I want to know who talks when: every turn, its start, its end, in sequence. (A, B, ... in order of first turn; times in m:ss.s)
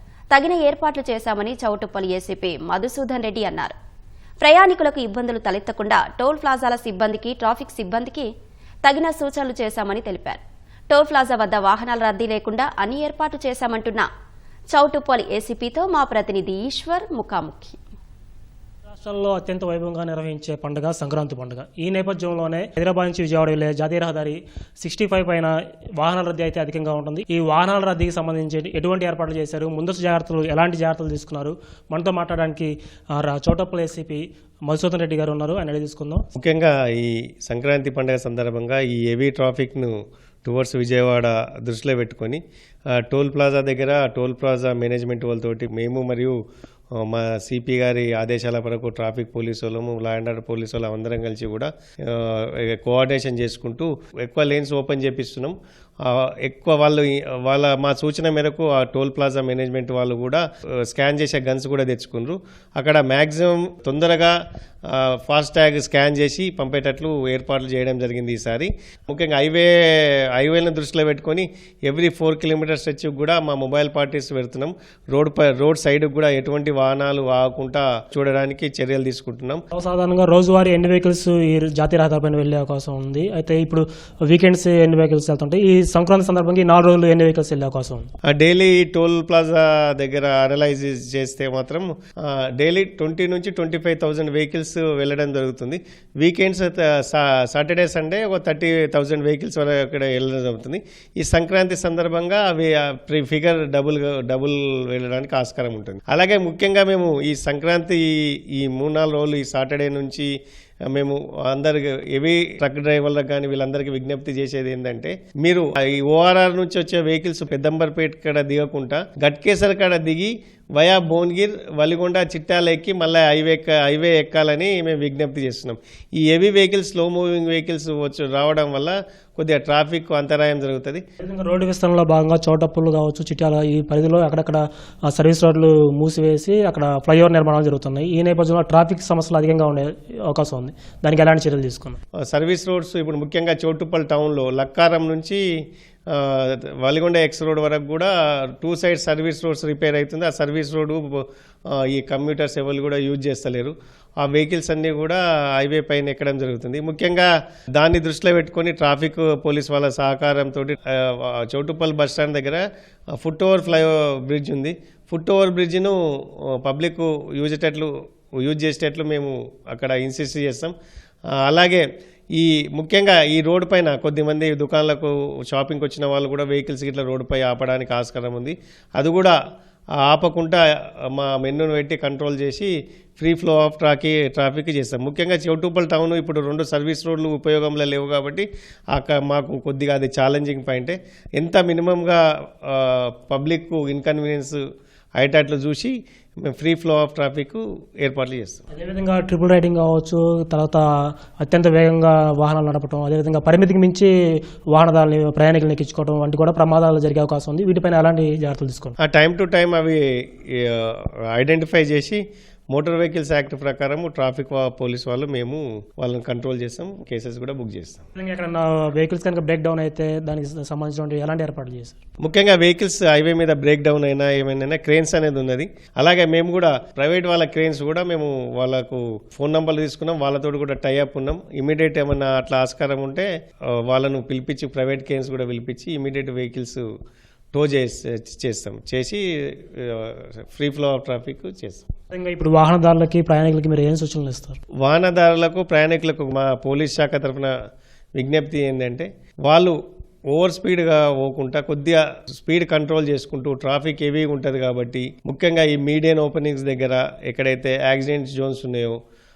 0:00.3-0:03.7 A
0:04.4-0:08.3 A
0:08.8-0:14.1 A
0:14.7-0:17.8 A
0:18.9-0:36.3 B
0:36.4-0:42.4 C
0:43.0-0:46.4 C
0:47.0-1:04.4 C
1:04.9-1:19.6 C
1:19.7-1:28.1 B
1:28.3-1:50.3 C
1:50.9-2:11.0 C
2:11.2-2:22.0 B
2:22.2-2:25.4 C
2:26.1-2:42.6 C
2:43.2-2:46.0 C
2:46.6-2:47.9 C
2:48.4-2:50.7 C
2:51.4-2:59.4 C
3:00.0-3:14.6 C
3:15.2-3:18.6 C
3:18.7-3:20.8 B
3:21.4-3:24.1 B
3:24.7-3:28.9 B
3:29.0-3:38.0 C
3:38.2-3:42.0 B
3:42.2-3:53.3 C
3:53.9-3:56.8 C
3:57.5-4:01.9 C
4:02.1-4:04.6 B
4:04.8-4:07.5 C
4:08.2-4:09.8 C
4:10.3-4:19.0 C